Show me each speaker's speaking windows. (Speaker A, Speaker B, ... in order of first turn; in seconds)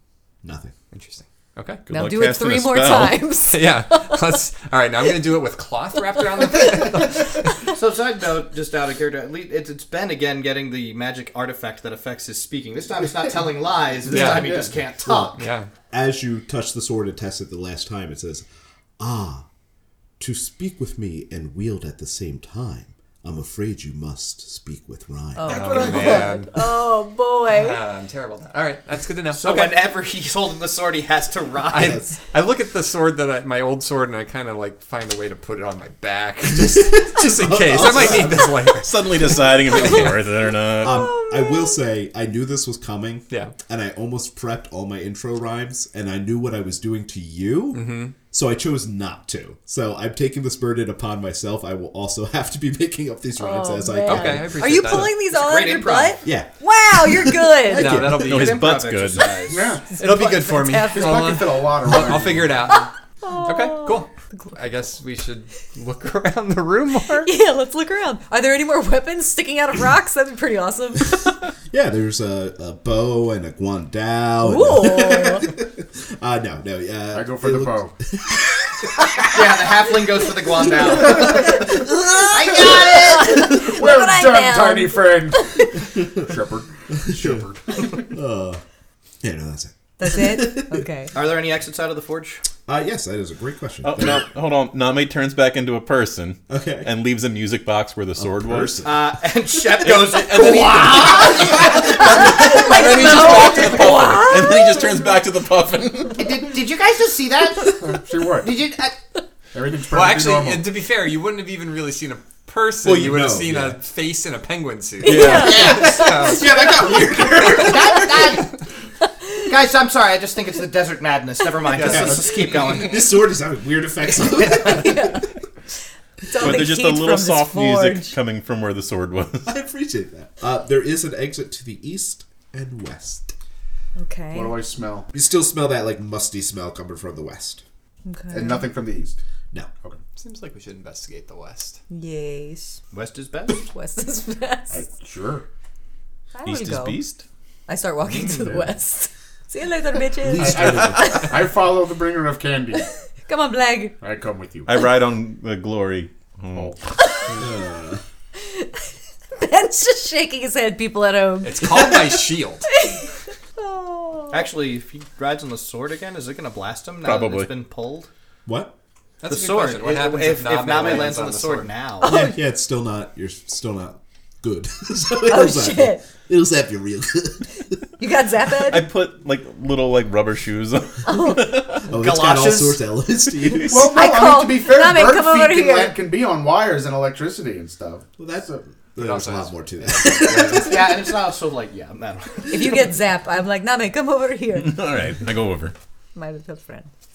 Speaker A: 0.4-0.7, 15.0-15.4, 15.9-18.4, 19.0-19.5, 20.2-26.2, 31.8-32.1, 36.5-38.8, 40.8-55.1, 56.2-58.4, 71.7-79.9, 80.5-82.7, 87.0-88.6, 89.2-90.8, 92.7-94.2, 96.5-96.9, 98.2-99.2, 101.2-102.3, 112.8-113.8, 115.1-118.5, 121.8-125.2, 129.5-133.3, 135.1-137.6, 150.2-151.1, 157.4-158.0, 168.5-168.8, 172.0-177.8, 181.8-183.9, 188.2-190.9
Speaker B: 0.9-1.8, 3.5-7.4, 14.1-14.7, 15.4-15.7, 25.4-26.7, 27.5-29.8, 31.7-40.1, 43.3-43.5, 47.7-48.1, 54.1-55.2, 57.7-58.6, 59.9-62.9, 63.5-67.3, 109.9-116.6, 121.7-122.2, 140.2-141.8, 161.4-162.7, 169.2-171.7, 189.0-190.7
Speaker C: 1.9-3.3, 38.8-41.1, 58.1-59.4, 93.8-98.8, 99.8-106.2, 115.1-115.8, 126.4-129.5, 146.4-147.2, 154.7-156.8, 167.0-167.5, 178.6-181.9, 183.4-183.7, 194.6-195.7
Speaker D: 1.9-4.2, 6.5-6.9, 25.4-27.8, 40.9-41.8, 53.4-58.0, 59.9-61.7, 62.7-64.5, 67.2-71.2, 74.4-75.5, 82.1-85.7, 90.0-91.1, 101.7-105.0, 115.0-116.7, 124.5-125.3, 126.3-128.1, 134.0-134.6, 138.1-138.7, 141.9-142.8, 143.5-144.8, 146.3-147.1, 147.7-151.5, 152.7-154.0, 157.0-157.3, 158.4-162.1, 162.7-164.5, 172.0-172.4, 175.3-176.0, 178.0-178.9, 181.1-181.6, 183.9-186.0, 190.3-190.7, 192.5-194.8, 196.2-196.9
Speaker E: 7.7-15.4, 29.3-32.0, 55.2-56.2, 58.0-59.8, 79.2-81.7, 82.3-83.7, 87.2-88.0, 91.1-92.4, 98.8-101.9, 106.2-109.0, 117.5-118.5, 119.5-123.0, 124.5-124.7, 142.9-143.7, 164.3-168.1, 169.3-172.2, 181.9-182.8, 190.4-193.0
Speaker F: 14.1-14.7, 25.4-26.5, 59.5-60.0, 60.7-62.7, 77.1-78.0, 83.3-86.7, 87.7-88.0, 107.8-108.5, 109.5-110.7, 134.3-135.1, 138.3-139.2, 144.7-145.5, 148.2-148.6, 150.4-152.9, 154.0-154.8, 183.6-188.6